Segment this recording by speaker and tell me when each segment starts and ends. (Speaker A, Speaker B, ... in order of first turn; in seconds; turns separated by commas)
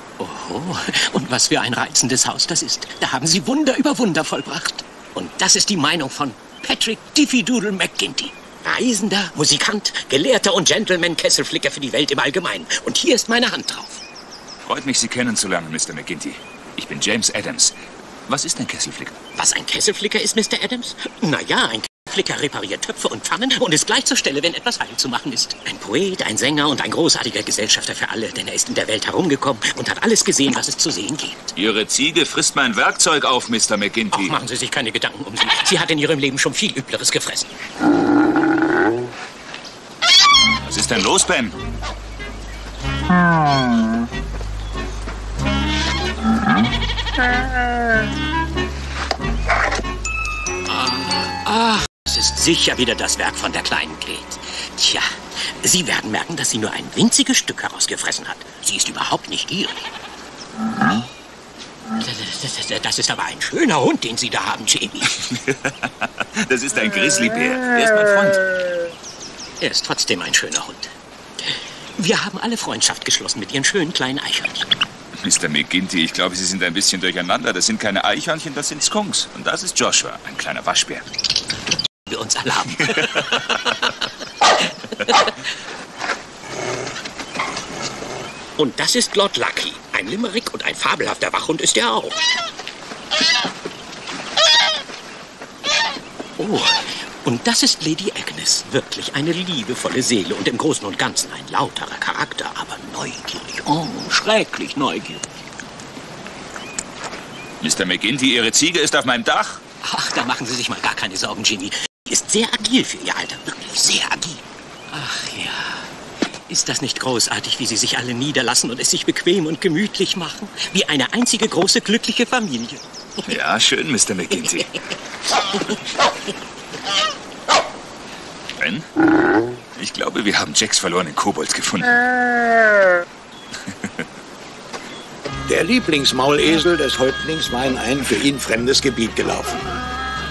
Speaker A: 0.2-14.0, Speaker B: 14.7-19.2, Speaker A: 19.4-31.5, Speaker B: 31.6-34.4, Speaker A: 34.1-37.6, Speaker B: 40.6-41.6, Speaker A: 50.7-55.1, Speaker A: 55.6-59.9, Speaker A: 62.0-65.2, Speaker B: 65.2-68.4, Speaker A: 69.6-74.7, Speaker B: 75.2-81.1, Speaker A: 82.1-85.5, Speaker A: 88.6-92.2, Speaker A: 96.4-105.2, Speaker B: 107.6-109.6, Speaker A: 109.8-115.9, Speaker A: 116.5-122.8, Speaker B: 123.3-124.7, Speaker B: 128.6-128.9, Speaker B: 129.8-132.0, Speaker B: 133.7-134.0, Speaker C: 135.5-139.6